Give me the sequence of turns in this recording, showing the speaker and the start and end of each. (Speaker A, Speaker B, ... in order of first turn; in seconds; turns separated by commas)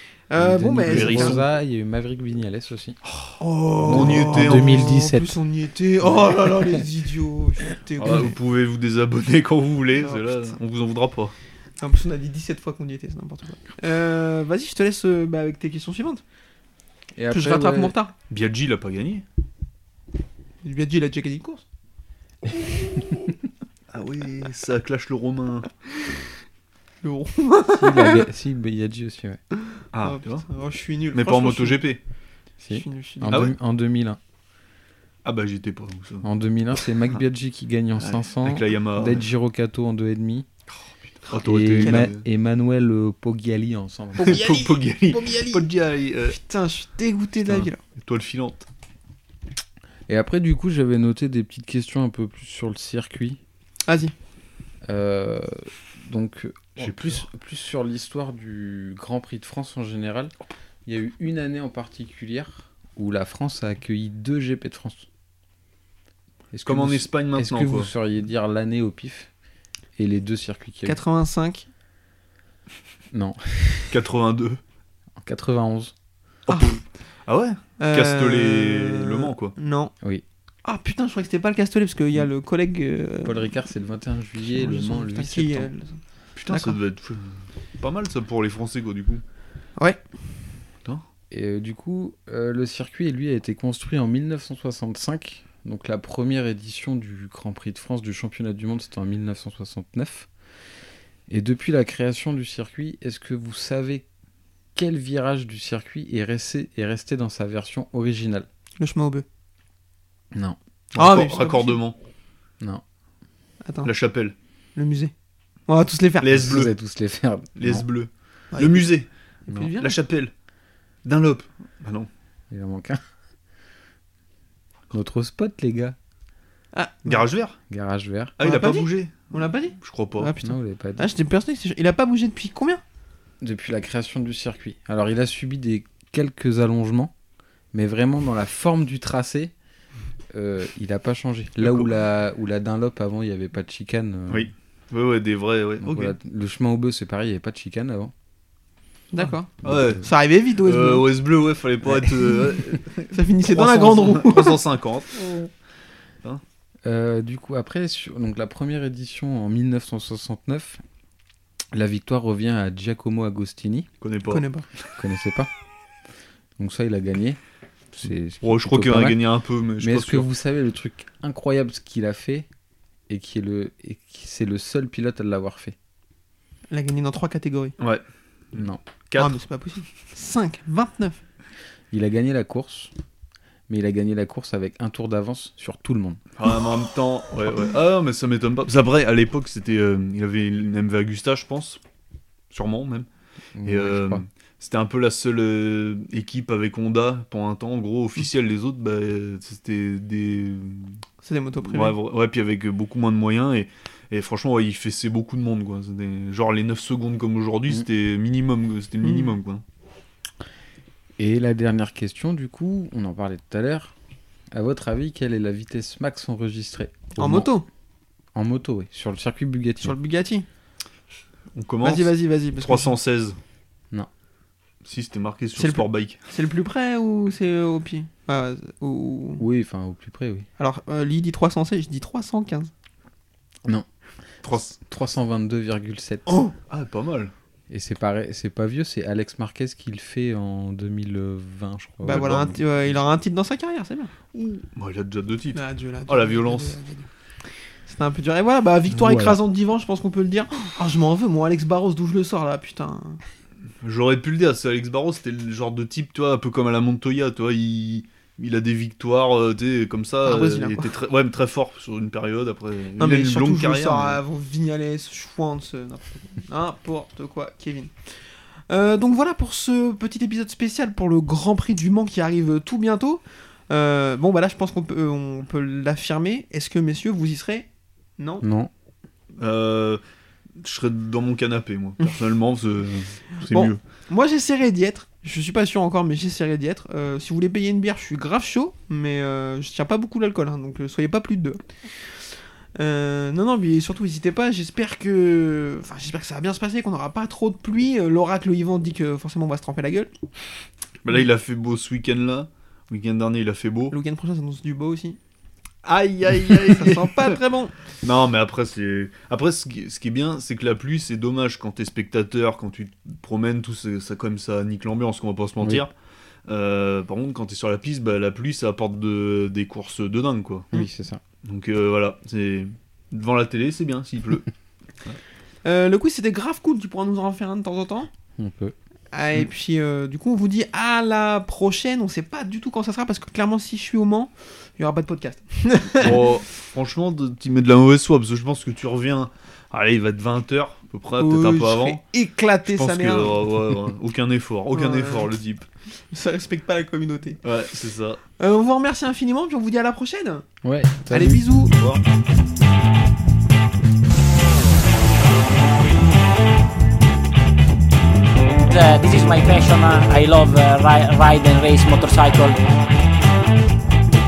Speaker A: 0.3-1.4, Speaker B: 0.4-3.0, Speaker C: 0.9-1.4, Speaker C: 3.1-4.9, Speaker A: 3.4-8.3, Speaker B: 3.9-5.3, Speaker B: 6.2-6.8, Speaker C: 8.0-11.3, Speaker A: 10.0-10.6, Speaker A: 11.8-16.2, Speaker B: 17.1-17.9, Speaker A: 17.3-18.1, Speaker C: 18.3-19.2, Speaker A: 20.6-21.6, Speaker C: 23.9-25.7, Speaker A: 27.0-28.3, Speaker B: 27.7-29.4, Speaker C: 29.9-30.5, Speaker A: 30.0-31.9, Speaker C: 31.1-32.0, Speaker B: 32.6-34.2, Speaker A: 32.7-33.5, Speaker C: 35.2-36.2, Speaker B: 36.2-40.5, Speaker C: 38.0-39.2, Speaker C: 41.3-42.2, Speaker B: 41.4-44.4, Speaker A: 41.8-42.1, Speaker A: 44.2-45.7, Speaker C: 44.2-46.4, Speaker A: 46.2-47.8, Speaker C: 47.5-48.7, Speaker B: 50.1-53.4, Speaker A: 53.9-54.1, Speaker B: 54.9-60.3, Speaker C: 56.8-57.2, Speaker B: 60.9-65.1, Speaker B: 66.5-69.3, Speaker C: 66.7-67.9, Speaker B: 70.0-71.0, Speaker A: 70.8-71.7, Speaker B: 73.1-73.9, Speaker C: 73.9-74.6, Speaker B: 75.2-75.9, Speaker A: 76.5-76.8, Speaker C: 76.5-79.5, Speaker A: 77.8-79.9, Speaker A: 80.7-83.5, Speaker B: 83.2-85.7, Speaker A: 84.5-86.8, Speaker C: 86.4-89.2, Speaker B: 91.3-100.3, Speaker B: 101.3-104.0, Speaker B: 104.8-108.5, Speaker A: 108.8-109.2, Speaker C: 110.9-112.0, Speaker A: 111.0-111.8, Speaker A: 113.6-113.9, Speaker C: 113.8-114.3, Speaker A: 114.8-115.1, Speaker A: 115.7-116.3, Speaker C: 116.2-116.7, Speaker B: 116.3-117.9, Speaker C: 117.6-120.3, Speaker A: 118.5-118.9, Speaker A: 119.5-120.0, Speaker C: 121.0-122.1, Speaker B: 122.5-123.0, Speaker B: 124.9-126.0, Speaker A: 126.7-127.2, Speaker C: 127.1-127.6, Speaker B: 127.7-128.4, Speaker C: 128.4-130.3, Speaker A: 128.4-132.8, Speaker B: 130.4-131.1, Speaker B: 133.4-137.1, Speaker B: 137.7-139.5, Speaker B: 140.3-144.5, Speaker C: 141.6-141.9, Speaker C: 144.3-146.1, Speaker B: 145.8-148.1, Speaker A: 149.1-151.1, Speaker C: 149.6-150.1, Speaker B: 149.6-150.0, Speaker C: 150.6-155.2, Speaker A: 153.1-154.6, Speaker A: 155.2-155.5, Speaker B: 156.8-160.8, Speaker B: 161.7-163.9, Speaker C: 164.0-164.4, Speaker A: 164.3-164.7, Speaker B: 165.0-165.5, Speaker B: 166.6-167.4, Speaker B: 167.9-169.2, Speaker C: 168.4-170.3, Speaker B: 169.8-172.5, Speaker B: 173.1-175.8, Speaker A: 176.7-177.8, Speaker C: 177.8-179.4, Speaker B: 178.5-178.8, Speaker A: 179.2-181.2, Speaker B: 181.9-182.9, Speaker B: 183.7-186.2, Speaker C: 186.4-191.8, Speaker C: 192.5-193.1, Speaker B: 193.6-194.2, Speaker C: 193.6-201.0, Speaker A: 201.2-202.0, Speaker C: 201.6-209.6, Speaker A: 209.0-209.3, Speaker B: 211.2-213.9, Speaker B: 214.5-217.5, Speaker A: 217.2-217.7, Speaker B: 218.3-219.9, Speaker A: 219.8-220.5, Speaker C: 221.5-223.4, Speaker A: 221.8-223.0, Speaker C: 224.8-226.2, Speaker A: 225.6-229.4, Speaker B: 229.4-230.5, Speaker A: 230.6-232.7, Speaker C: 234.4-234.7, Speaker B: 234.8-236.4, Speaker A: 236.3-236.5, Speaker C: 236.7-237.3, Speaker B: 237.7-242.5, Speaker A: 242.0-244.6, Speaker C: 242.1-242.6, Speaker C: 244.8-246.8, Speaker A: 245.6-247.1, Speaker A: 247.9-253.2, Speaker B: 248.9-249.4, Speaker C: 253.8-264.2, Speaker A: 260.2-260.9, Speaker A: 263.0-268.1, Speaker A: 268.7-277.7, Speaker A: 278.2-278.4, Speaker B: 278.4-278.7, Speaker C: 279.4-280.0, Speaker C: 280.6-283.8, Speaker A: 283.4-300.1, Speaker C: 301.0-304.0, Speaker A: 303.9-305.2, Speaker C: 305.8-307.4, Speaker A: 306.6-307.7, Speaker C: 308.0-315.9, Speaker C: 316.5-320.7, Speaker B: 320.7-321.2, Speaker C: 321.4-324.5, Speaker A: 325.6-328.1, Speaker B: 328.4-328.7, Speaker A: 329.1-336.3, Speaker C: 336.0-342.0, Speaker A: 341.2-343.4, Speaker C: 342.6-345.7, Speaker A: 344.7-345.3, Speaker A: 346.1-347.4, Speaker C: 347.4-348.2, Speaker A: 348.4-350.5, Speaker B: 350.6-351.4, Speaker A: 351.1-351.7, Speaker C: 351.8-352.0, Speaker D: 358.6-362.6